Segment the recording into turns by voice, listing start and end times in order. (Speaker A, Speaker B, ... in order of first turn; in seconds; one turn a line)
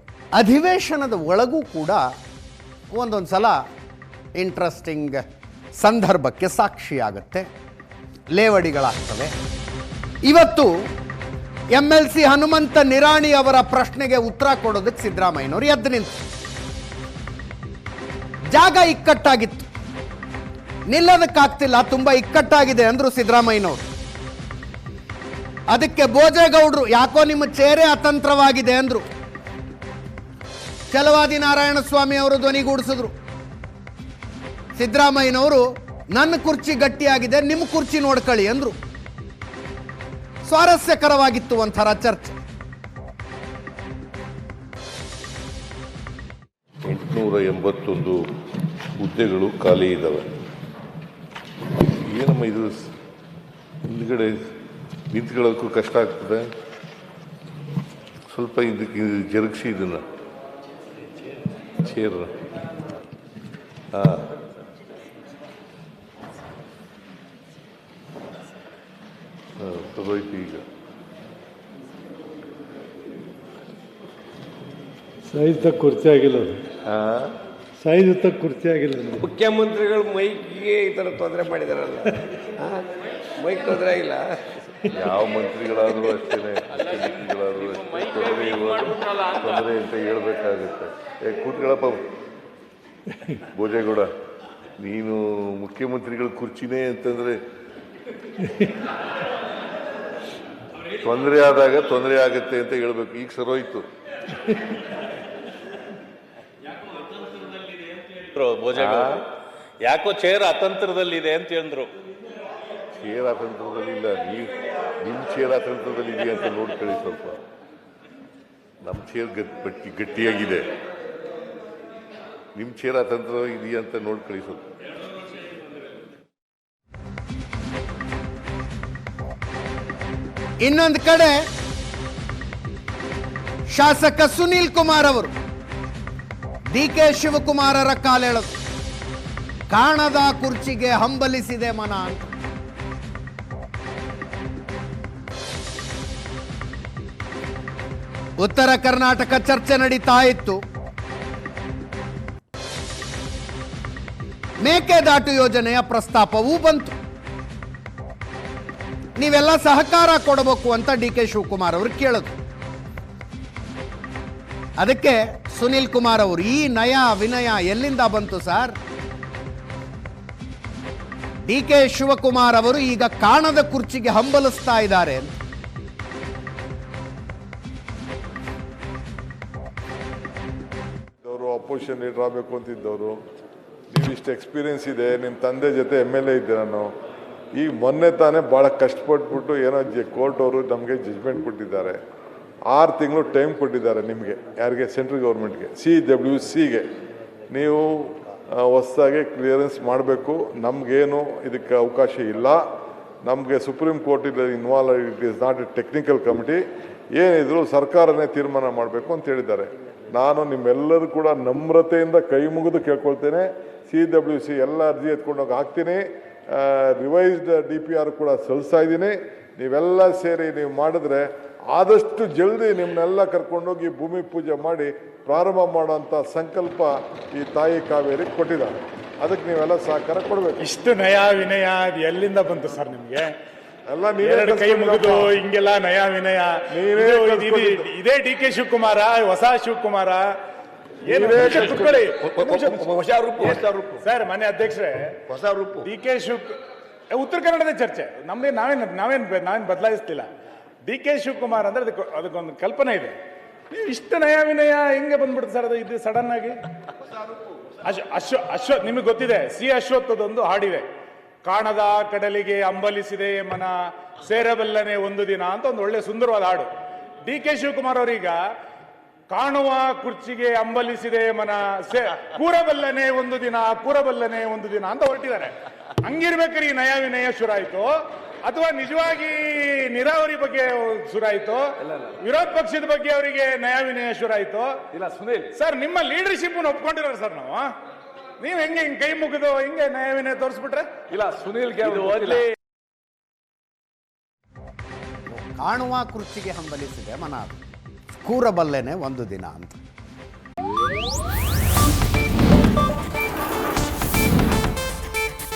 Speaker A: 0.4-2.1
Speaker A: 2.9-3.6
Speaker A: 4.4-5.2
Speaker A: 5.8-7.5
Speaker A: 8.3-9.3
Speaker A: 10.2-10.8
Speaker A: 11.7-16.2
Speaker A: 18.5-19.7
Speaker A: 20.9-23.9
Speaker A: 25.7-29.1
Speaker A: 30.9-33.1
Speaker A: 34.8-38.8
Speaker A: 40.5-42.4
Speaker B: 46.9-48.2
Speaker B: 49.0-50.3
Speaker B: 52.0-52.9
Speaker B: 53.9-54.4
Speaker B: 55.1-56.5
Speaker B: 58.3-60.0
Speaker B: 61.8-62.3
Speaker B: 63.9-64.3
Speaker B: 69.6-70.7
Speaker C: 75.3-76.7
Speaker B: 76.9-77.4
Speaker C: 77.8-79.2
Speaker D: 79.2-82.0
Speaker D: 83.4-84.3
Speaker B: 84.9-92.0
Speaker B: 93.5-94.1
Speaker B: 94.8-97.4
Speaker B: 101.0-103.9
Speaker E: 108.3-109.3
Speaker B: 108.8-109.2
Speaker E: 109.8-111.9
Speaker B: 113.0-117.4
Speaker B: 118.8-120.7
Speaker B: 122.5-124.7
Speaker A: 130.6-131.4
Speaker A: 133.7-135.3
Speaker A: 136.7-138.5
Speaker A: 139.7-142.2
Speaker A: 148.4-150.6
Speaker A: 154.6-156.9
Speaker A: 159.2-162.3
Speaker A: 164.8-168.8
Speaker A: 171.5-175.3
Speaker F: 181.2-183.2
Speaker F: 183.9-186.9
Speaker F: 187.6-192.0
Speaker F: 192.7-196.9
Speaker F: 197.5-202.6
Speaker F: 203.2-206.6
Speaker F: 207.2-230.6
Speaker G: 230.6-233.3
Speaker F: 233.9-235.3
Speaker G: 234.2-240.3
Speaker F: 236.7-237.8
Speaker G: 241.0-245.2
Speaker F: 241.1-242.0
Speaker D: 242.3-244.0
Speaker D: 245.3-245.9
Speaker G: 245.8-246.5
Speaker G: 247.1-250.3
Speaker G: 250.9-253.2
Speaker G: 253.7-256.6
Speaker G: 257.8-260.9
Speaker G: 261.4-266.7
Speaker G: 267.2-268.4
Speaker G: 269.3-284.8
Speaker D: 284.9-285.5
Speaker G: 285.5-287.7
Speaker G: 288.4-292.3
Speaker D: 291.1-292.4
Speaker A: 295.3-297.6
Speaker A: 298.1-299.8